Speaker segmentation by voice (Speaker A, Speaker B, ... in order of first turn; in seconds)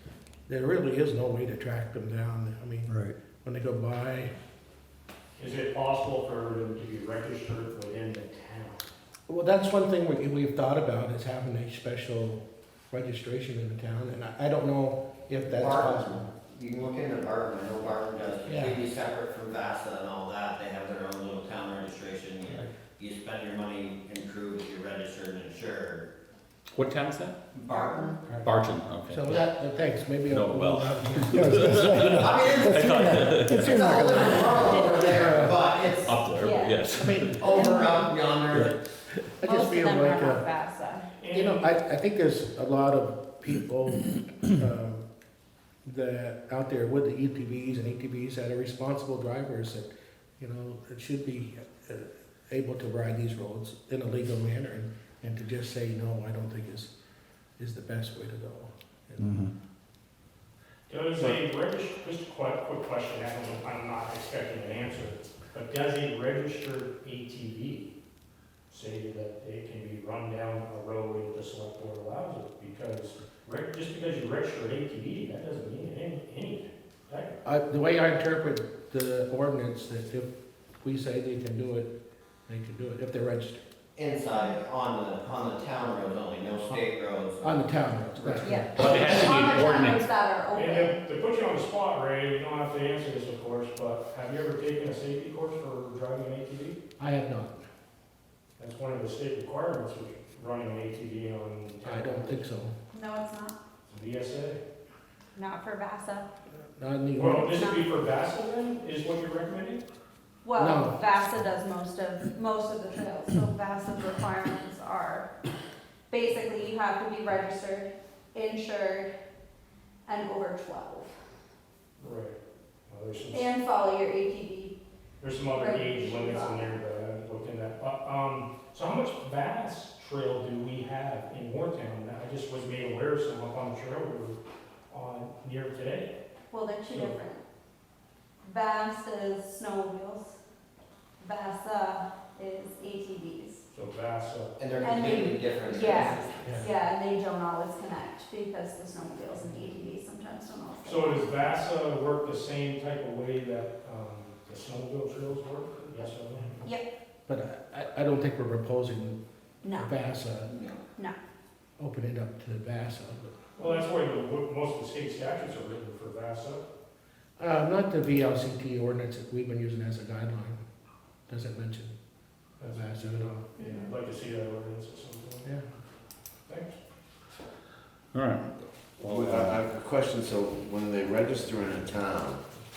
Speaker A: 0.5-4.3, 9.3-16.3, 18.5-18.8, 29.1-35.5, 37.0-38.1, 39.4-40.4, 41.3-45.0, 45.9-56.9, 57.6-59.4, 77.4-80.3, 80.8-82.0, 82.5-83.6, 87.4-89.4, 97.0-97.6, 101.8-102.7, 106.6-107.7, 110.6-111.0, 157.3-159.2, 159.7-160.5, 161.8-163.4, 167.4-170.6, 171.3-171.9, 172.6-173.4
Speaker B: 5.4-8.9, 41.2-41.7, 60.9-67.9, 68.7-77.4, 88.2-88.6, 90.5-96.8, 98.6-102.4, 103.9-104.6, 107.2-109.8, 122.0-123.5, 125.2-134.4, 134.9-136.1, 143.7-144.6, 150.8-156.7, 163.6-166.6, 172.6-175.5, 176.5-176.8
Speaker C: 15.5-26.1, 27.5-28.2, 32.1-36.2, 37.4-38.7, 84.0-87.8, 144.6-146.7
Speaker D: 26.7-27.4, 28.4-29.4, 30.3-33.8, 35.9-37.5, 59.2-59.5, 88.7-90.0, 178.1-179.6
Speaker E: 27.7-28.2, 34.4-35.1, 36.4-36.9, 37.5-37.9, 39.4-41.0, 88.4-91.0, 102.9-103.6, 105.3-106.3, 107.3-107.9, 110.4-115.3, 116.1-119.1, 120.0-121.1, 123.3-124.8, 125.5-126.7, 136.5-137.4, 138.4-140.4, 141.2-143.6, 144.8-151.3, 159.6-159.9, 173.6-173.9
Speaker F: 179.0-182.4